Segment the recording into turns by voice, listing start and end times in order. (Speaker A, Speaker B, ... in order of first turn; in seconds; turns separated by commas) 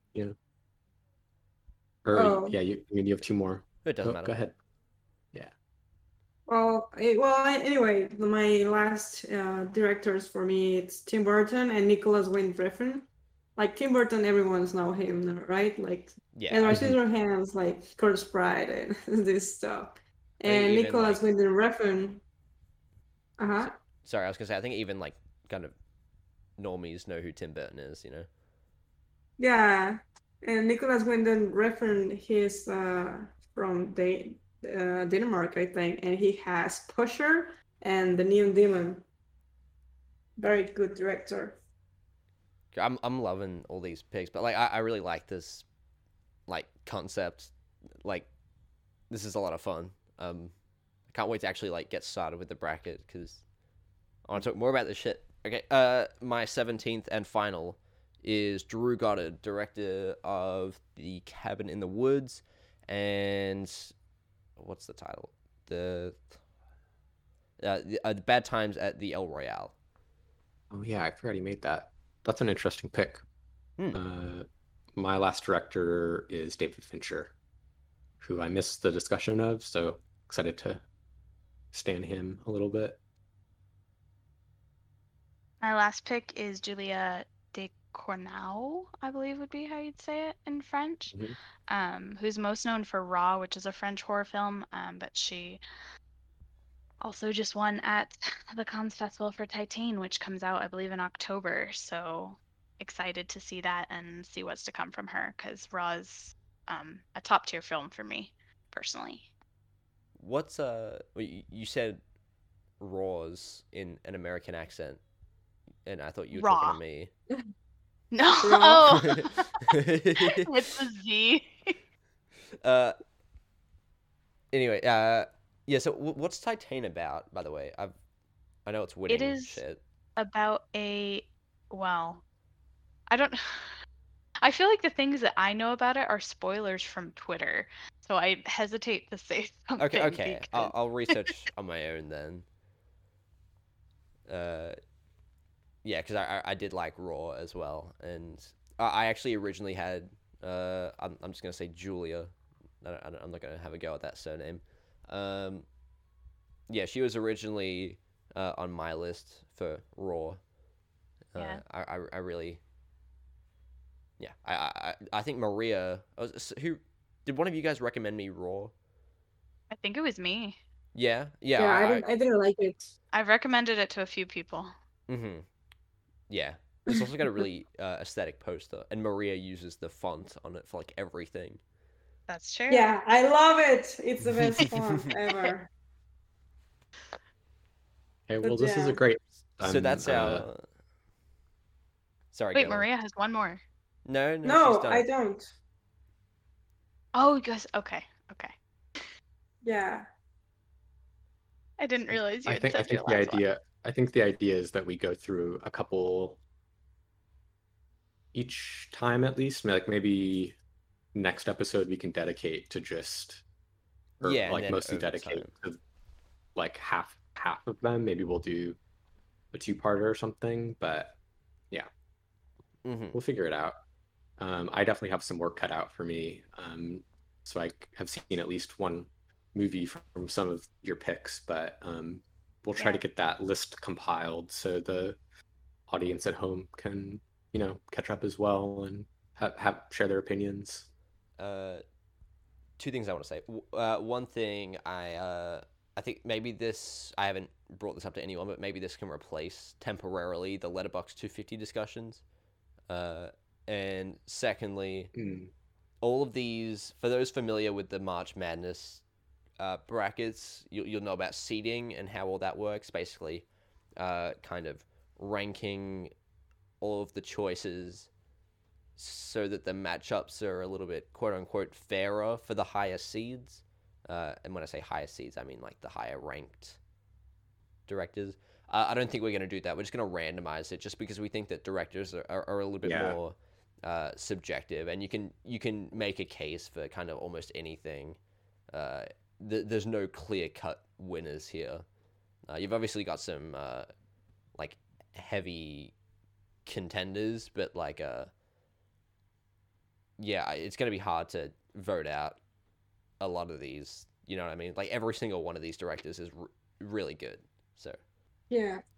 Speaker A: 2.0-4.5, Speaker B: 2.1-2.6, Speaker C: 3.8-4.4, Speaker B: 6.5-13.0, Speaker B: 13.6-22.2, Speaker C: 16.3-16.8, Speaker A: 16.7-17.0, Speaker C: 20.4-21.2, Speaker B: 23.4-23.7, Speaker C: 23.6-25.7, Speaker C: 26.6-28.3, Speaker B: 29.4-39.0, Speaker B: 40.4-41.6, Speaker C: 42.7-45.6, Speaker C: 46.5-47.5, Speaker C: 48.0-48.3, Speaker C: 49.1-50.5, Speaker C: 51.1-53.4, Speaker C: 54.2-63.9, Speaker C: 64.6-66.2, Speaker C: 67.6-69.7, Speaker A: 70.7-73.2, Speaker A: 73.9-74.4, Speaker A: 75.0-77.3, Speaker A: 78.2-80.8, Speaker A: 81.7-83.0, Speaker D: 85.6-91.1, Speaker D: 91.7-95.6, Speaker D: 97.0-109.3, Speaker C: 110.2-112.0, Speaker C: 112.8-115.0, Speaker C: 115.8-117.1, Speaker D: 116.3-116.8, Speaker D: 118.1-119.6, Speaker B: 118.4-119.0, Speaker C: 118.9-120.5, Speaker D: 120.4-121.7, Speaker C: 122.6-123.0, Speaker C: 124.5-128.0, Speaker C: 128.6-129.8, Speaker D: 129.1-129.6, Speaker D: 130.2-132.2, Speaker D: 133.1-133.8, Speaker D: 134.4-141.3, Speaker C: 139.8-142.4, Speaker C: 144.3-144.8, Speaker C: 145.8-155.7, Speaker C: 156.7-160.4, Speaker C: 161.3-162.6, Speaker D: 161.3-161.6, Speaker C: 164.2-168.7, Speaker D: 169.7-170.6, Speaker C: 170.9-172.1, Speaker B: 171.6-172.9, Speaker D: 173.1-174.7, Speaker C: 175.1-175.4, Speaker C: 176.3-181.6, Speaker D: 182.3-182.9, Speaker B: 182.7-185.7, Speaker A: 188.3-190.4, Speaker B: 188.4-189.0, Speaker C: 189.6-190.6, Speaker C: 192.3-192.8, Speaker D: 192.5-193.6, Speaker C: 194.1-195.1, Speaker B: 194.4-195.5, Speaker D: 197.1-198.5, Speaker B: 199.6-200.1, Speaker D: 201.8-203.4, Speaker A: 202.1-206.4, Speaker A: 208.3-210.6, Speaker A: 211.1-213.4, Speaker C: 214.2-215.5, Speaker A: 214.2-215.8, Speaker A: 216.5-218.8, Speaker A: 219.5-221.2, Speaker C: 222.8-223.2, Speaker A: 223.1-223.8, Speaker A: 224.4-235.2, Speaker A: 235.9-240.9, Speaker C: 241.4-241.8, Speaker C: 242.8-252.2, Speaker C: 252.9-255.1, Speaker A: 255.1-255.5, Speaker C: 256.0-259.0, Speaker C: 259.6-266.1, Speaker C: 266.8-268.1, Speaker C: 269.0-276.8, Speaker C: 277.9-288.2, Speaker A: 282.8-283.2, Speaker C: 288.7-291.8, Speaker C: 292.5-293.9, Speaker C: 294.6-295.9, Speaker C: 296.6-298.3, Speaker C: 300.2-302.4, Speaker C: 303.2-308.0, Speaker B: 308.5-308.8